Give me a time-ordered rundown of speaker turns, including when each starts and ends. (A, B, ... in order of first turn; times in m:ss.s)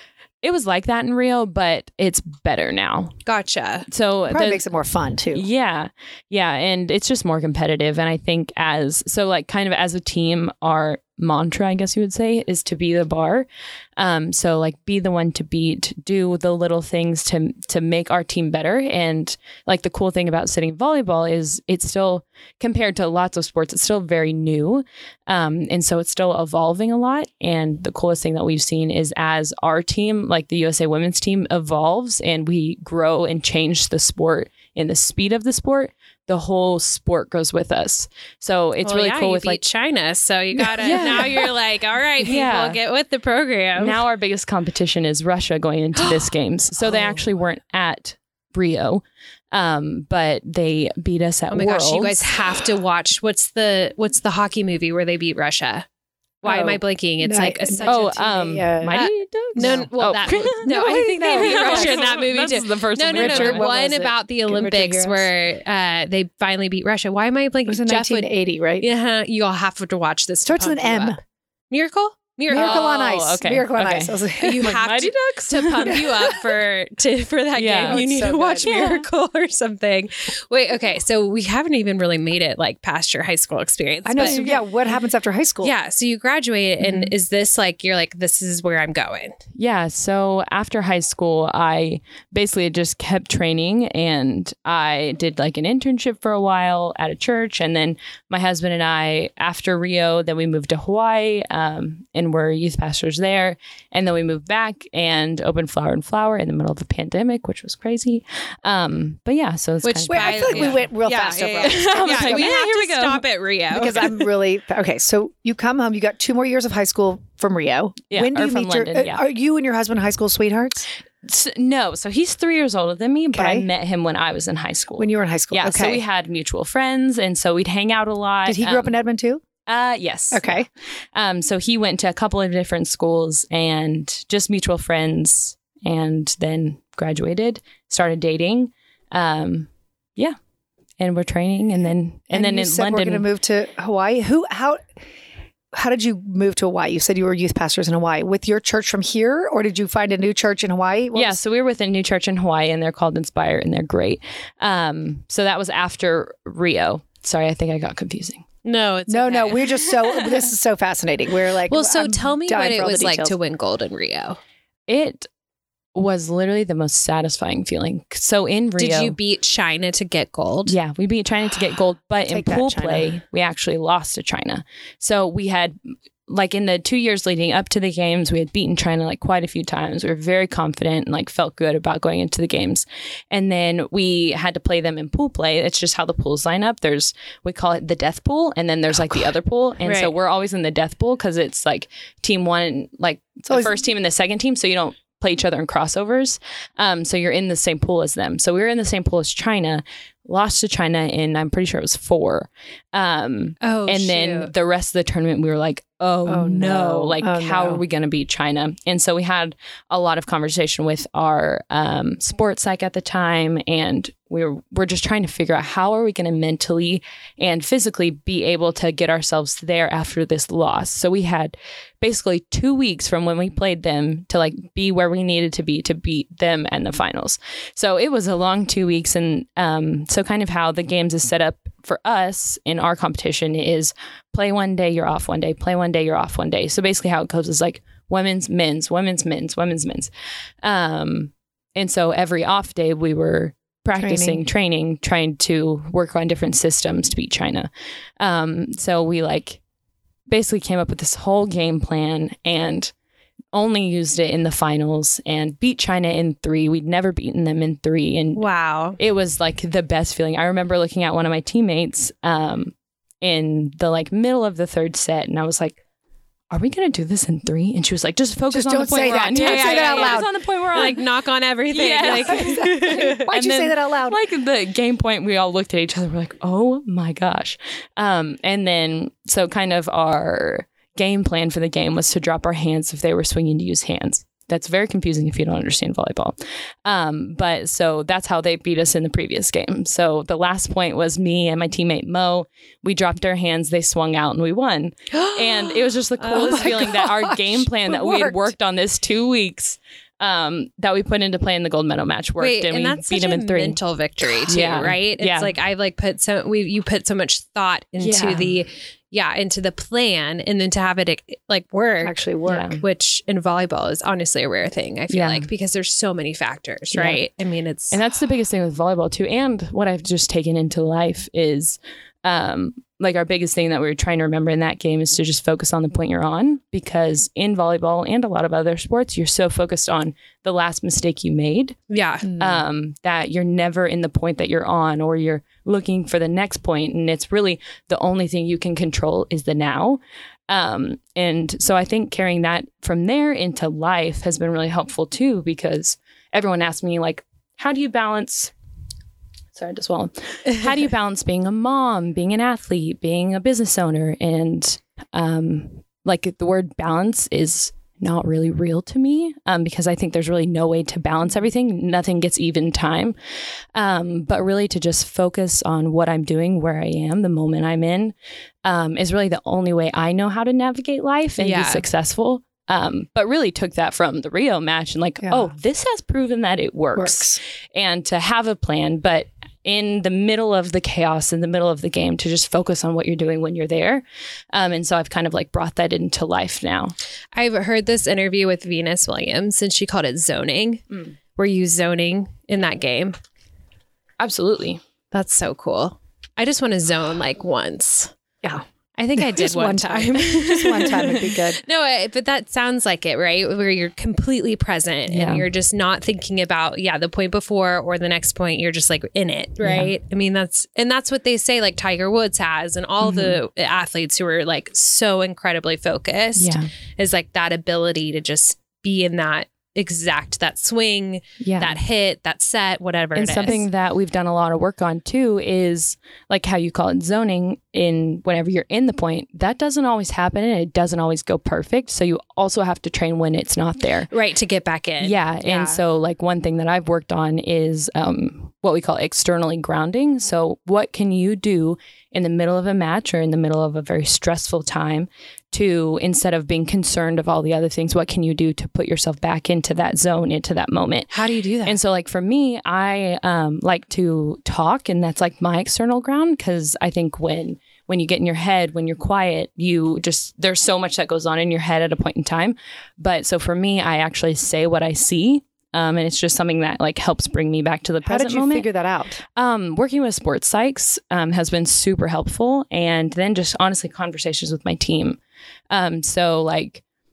0:00.4-0:03.1 A
0:03.2-0:03.8 B
0:03.9-0:04.6 A
0:04.3-0:05.5 C
0:05.3-0:39.6 A
0:38.8-0:44.0 B
0:40.7-0:41.5 A
0:42.2-0:42.8 A
0:43.8-0:52.3 A
0:46.0-0:46.3 B
0:46.8-0:47.1 B
0:51.5-0:55.8 B
0:56.4-0:58.3 B
0:56.4-0:59.0 C
0:57.8-1:00.7 A
0:58.9-1:11.2 B
0:59.5-0:59.9 C
1:00.5-1:02.1 C
1:01.2-1:04.1 A
1:03.1-1:05.3 C
1:07.7-1:08.9 C
1:10.4-1:11.2 C
1:11.7-1:13.0 B
1:12.5-1:14.7 C
1:12.5-1:16.1 A
1:14.4-1:24.5 B
1:17.6-1:18.0 A
1:17.8-1:18.9 C
1:18.6-1:19.0 A
1:24.0-1:25.7 C
1:24.2-1:24.6 A
1:25.6-1:29.4 B
1:26.8-1:27.1 A
1:29.6-1:50.9 A
1:49.8-1:54.2 B
1:50.1-1:52.6 C
1:51.6-1:53.2 A
1:53.7-2:00.9 C
1:58.1-1:59.2 A
2:01.2-2:08.9 A
2:03.3-2:03.7 C
2:05.0-2:06.0 C
2:08.4-2:09.4 C
2:09.7-2:20.4 A
2:10.3-2:10.7 C
2:21.0-2:23.2 A
2:22.3-2:24.8 C
2:25.7-2:31.4 C
2:31.1-2:38.4 A
2:38.6-2:39.9 B
2:39.1-2:43.4 C
2:41.7-2:44.4 B
2:44.9-2:45.3 A
2:45.9-2:49.2 A
2:48.8-2:50.8 B
2:50.6-2:55.8 A
2:52.3-2:53.1 C
2:56.3-4:00.1 A
3:09.8-3:10.1 B
3:13.5-3:13.8 C
3:23.6-3:24.5 B
3:26.2-3:27.8 C
4:00.6-4:09.6 A
4:04.0-4:04.4 C
4:10.3-4:12.9 A
4:13.5-4:18.4 A
4:18.3-4:19.0 B
4:19.0-4:25.8 A
4:26.5-4:31.1 A
4:28.5-4:30.3 C
4:29.3-4:33.3 B
4:31.7-5:03.8 A
4:32.0-4:34.2 C
4:55.1-4:56.9 B
4:56.3-4:58.5 C
5:02.4-5:12.2 B
5:04.4-5:05.5 A
5:08.0-5:08.5 A
5:12.0-5:12.8 C
5:12.4-5:12.8 A
5:12.8-5:18.0 B
5:15.1-5:15.5 A
5:16.9-5:17.2 A
5:17.9-5:48.5 A
5:31.9-5:32.4 B
5:49.5-6:03.1 A
6:03.7-6:26.9 A
6:11.4-6:11.8 B
6:15.2-6:15.5 C
6:17.0-6:17.4 C
6:27.3-6:30.8 B
6:31.4-6:33.2 B
6:34.2-6:34.8 A
6:35.1-6:38.1 B
6:39.0-7:03.7 B
6:39.2-6:41.6 C
6:45.1-6:45.4 A
6:49.6-6:49.9 A
6:53.0-6:53.4 A
6:56.4-6:56.7 A
7:01.4-7:01.8 A
7:03.1-7:14.1 A
7:14.1-7:15.8 B
7:15.0-7:31.1 A
7:31.1-7:31.8 B
7:31.6-7:48.7 A
7:48.0-7:49.2 C
7:49.4-7:55.2 A
7:55.7-7:56.8 A